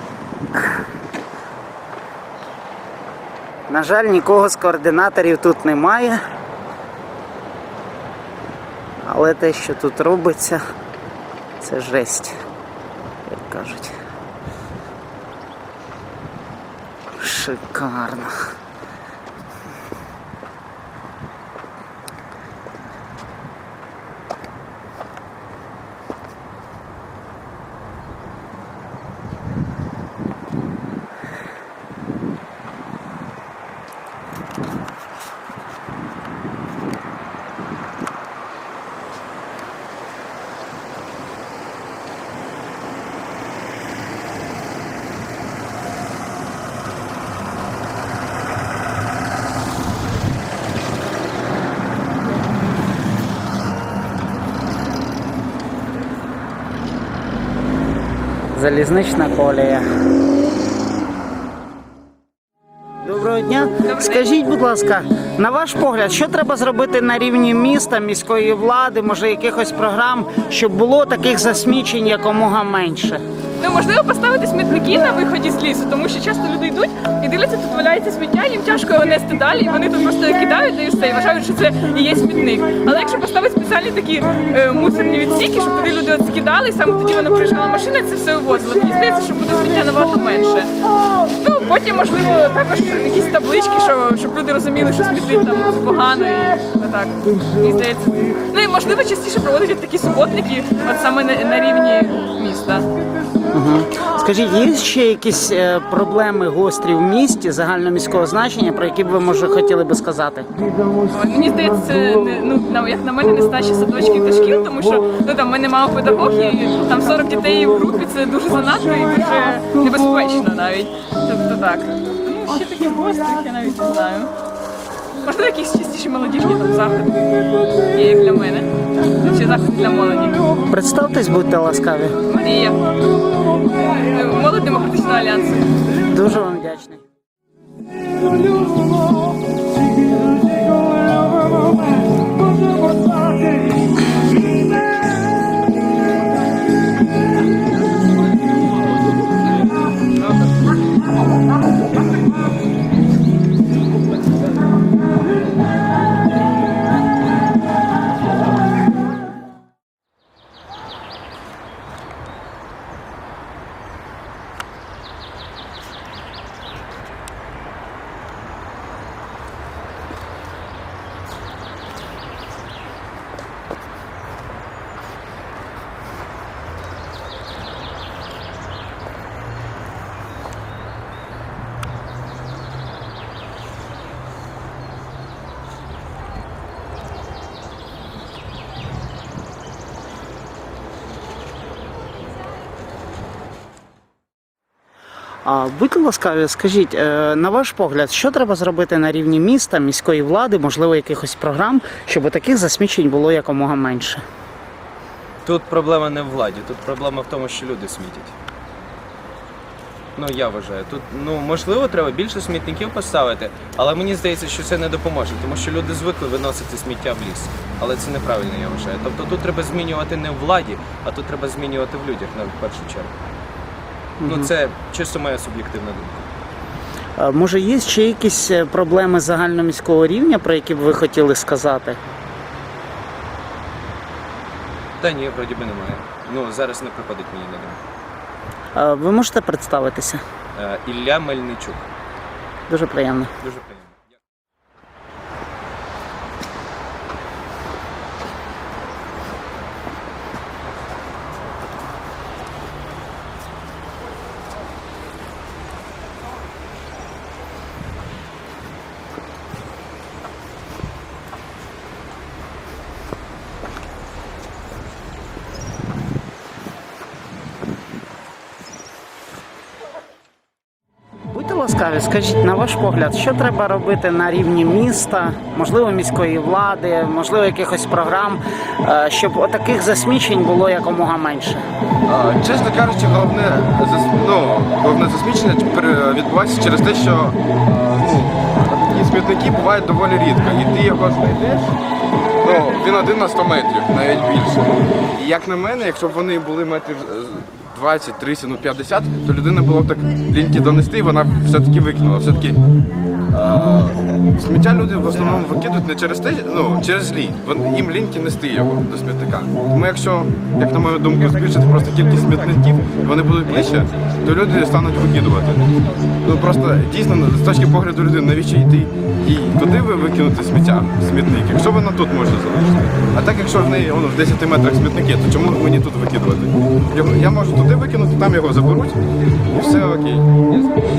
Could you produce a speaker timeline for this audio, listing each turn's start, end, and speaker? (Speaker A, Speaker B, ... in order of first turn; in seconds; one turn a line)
Speaker A: 3.7-6.2
Speaker A: 9.0-10.6
Speaker A: 11.6-12.3
Speaker A: 13.3-13.9
Speaker A: 17.1-18.4
Speaker A: 58.5-59.8
Speaker A: 63.0-73.2
Speaker B: 63.8-64.2
Speaker B: 73.6-102.9
Speaker A: 103.5-110.5
Speaker B: 111.1-124.3
Speaker B: 125.2-127.2
Speaker B: 127.9-128.7
Speaker B: 129.2-130.6
Speaker A: 130.7-132.2
Speaker B: 132.2-132.8
Speaker B: 134.1-135.7
Speaker A: 136.1-137.0
Speaker A: 195.4-204.2
Speaker C: 205.4-208.3
Speaker C: 210.2-223.1
Speaker A: 224.2-224.5
Speaker C: 224.2-226.3
Speaker A: 227.2-232.0
Speaker C: 235.0-237.8
Speaker A: 238.7-240.2
Speaker C: 240.5-241.8
Speaker A: 242.7-243.3
Speaker C: 243.4-243.9
Speaker A: 271.3-281.6
Speaker D: 282.1-291.8
Speaker D: 292.4-302.6
Speaker D: 303.3-330.7